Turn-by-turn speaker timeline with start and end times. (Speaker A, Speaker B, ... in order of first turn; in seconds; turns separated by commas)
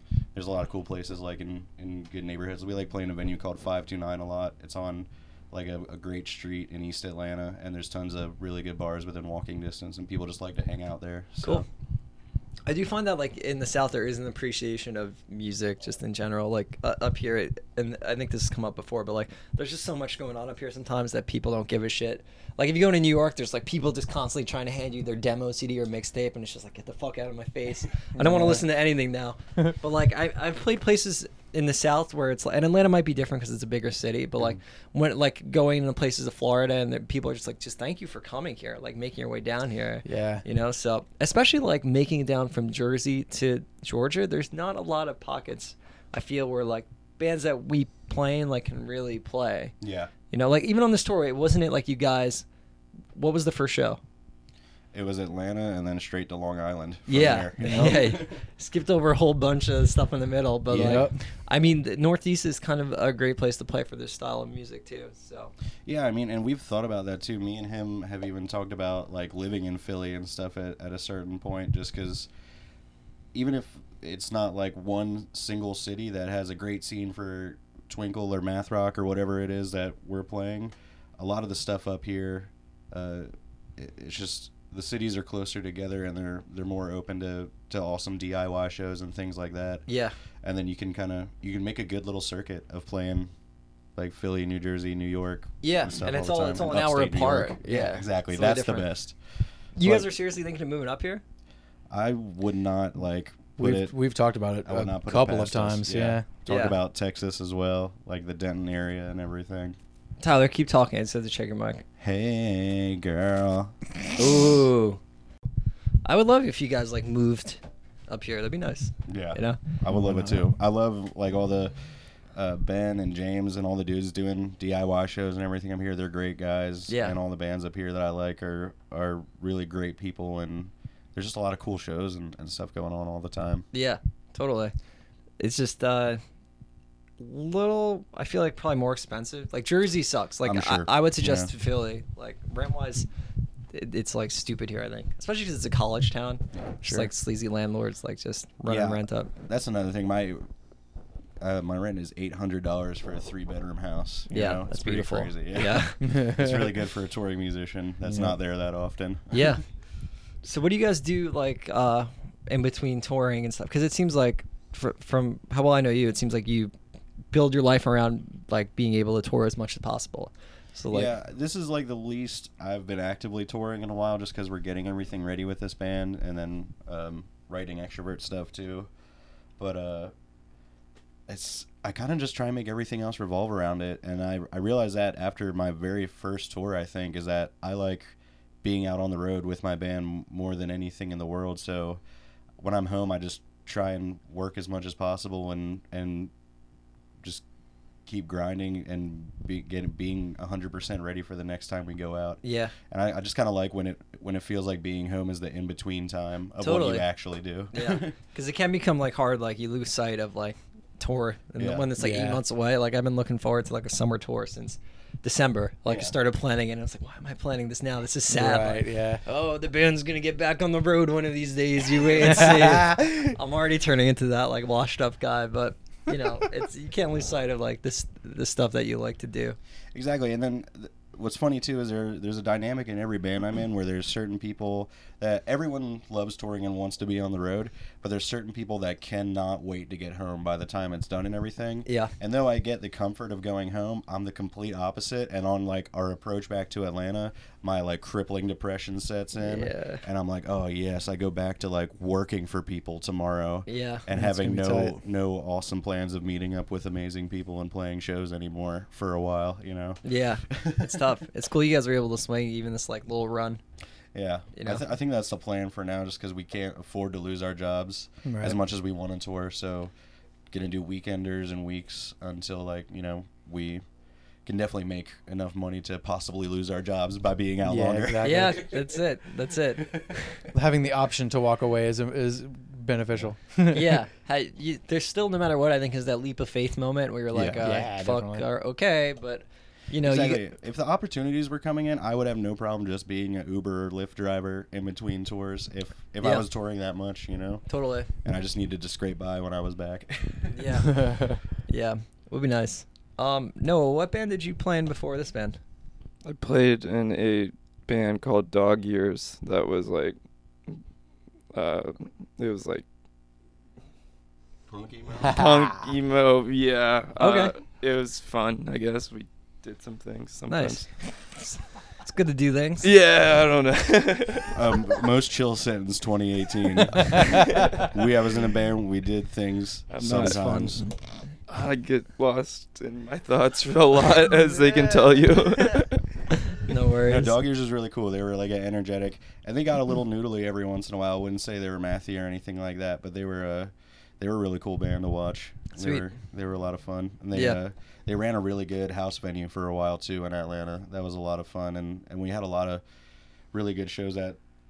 Speaker A: 0.3-11.7, Speaker B: 12.7-49.7, Speaker C: 28.2-28.6, Speaker C: 40.0-40.4, Speaker A: 49.8-50.1, Speaker B: 50.3-52.5, Speaker B: 53.1-54.0, Speaker A: 54.9-58.3, Speaker B: 57.1-65.5, Speaker C: 57.6-58.1, Speaker A: 60.7-61.1, Speaker C: 60.7-61.2, Speaker A: 65.8-72.3, Speaker A: 73.3-89.8, Speaker B: 89.9-90.1, Speaker A: 90.4-93.3, Speaker A: 94.0-99.2, Speaker B: 95.6-98.9, Speaker B: 99.8-101.2, Speaker A: 99.8-100.1, Speaker A: 101.9-104.0, Speaker C: 103.6-106.2, Speaker A: 104.6-109.8, Speaker B: 106.5-106.8, Speaker B: 110.2-111.8, Speaker A: 112.0-113.7, Speaker B: 114.2-115.0, Speaker B: 116.0-119.6, Speaker A: 119.1-121.7, Speaker C: 119.9-120.4, Speaker A: 122.3-133.6, Speaker B: 126.9-127.2, Speaker B: 133.7-134.7, Speaker B: 135.4-136.2, Speaker B: 137.2-143.1, Speaker A: 140.4-141.5, Speaker B: 143.7-149.3, Speaker C: 146.8-147.1, Speaker A: 148.7-150.4, Speaker A: 151.4-159.6, Speaker B: 154.3-156.0, Speaker C: 156.0-156.8, Speaker C: 158.0-158.4, Speaker B: 159.3-159.6, Speaker B: 160.4-166.7, Speaker B: 167.3-171.1, Speaker A: 170.9-178.9, Speaker A: 179.6-180.1, Speaker A: 181.3-192.0, Speaker A: 192.6-196.3, Speaker A: 198.1-208.1, Speaker B: 202.4-202.7, Speaker B: 206.6-207.1, Speaker B: 207.7-229.6, Speaker A: 211.6-211.9, Speaker C: 212.0-212.4, Speaker A: 215.9-216.2, Speaker C: 218.3-219.2, Speaker C: 222.1-223.3, Speaker A: 229.9-261.0, Speaker B: 241.8-242.1, Speaker B: 249.3-250.0, Speaker B: 253.7-254.0, Speaker C: 254.1-255.0, Speaker B: 260.0-263.6, Speaker A: 264.1-269.9, Speaker B: 264.5-264.8, Speaker C: 268.2-268.6, Speaker A: 270.5-273.8, Speaker A: 274.4-278.8, Speaker C: 277.6-278.6, Speaker B: 278.2-280.3, Speaker A: 279.9-280.1, Speaker C: 280.5-284.0, Speaker B: 283.7-290.4, Speaker A: 287.3-287.7, Speaker C: 287.6-288.5, Speaker A: 290.0-297.6, Speaker B: 297.7-298.1, Speaker A: 298.2-300.8, Speaker B: 300.5-305.6, Speaker C: 300.9-301.4, Speaker D: 306.2-310.1, Speaker D: 311.5-312.8, Speaker A: 314.7-315.4, Speaker D: 315.2-320.9, Speaker C: 315.2-315.6, Speaker B: 317.2-317.5, Speaker B: 320.5-322.9, Speaker D: 322.8-325.0, Speaker A: 324.5-330.8, Speaker D: 327.0-327.7, Speaker D: 329.9-330.7, Speaker B: 330.1-330.9, Speaker D: 331.5-336.1, Speaker B: 336.5-337.4, Speaker A: 337.0-352.8, Speaker B: 345.8-346.0, Speaker B: 347.3-347.6, Speaker A: 353.5-354.4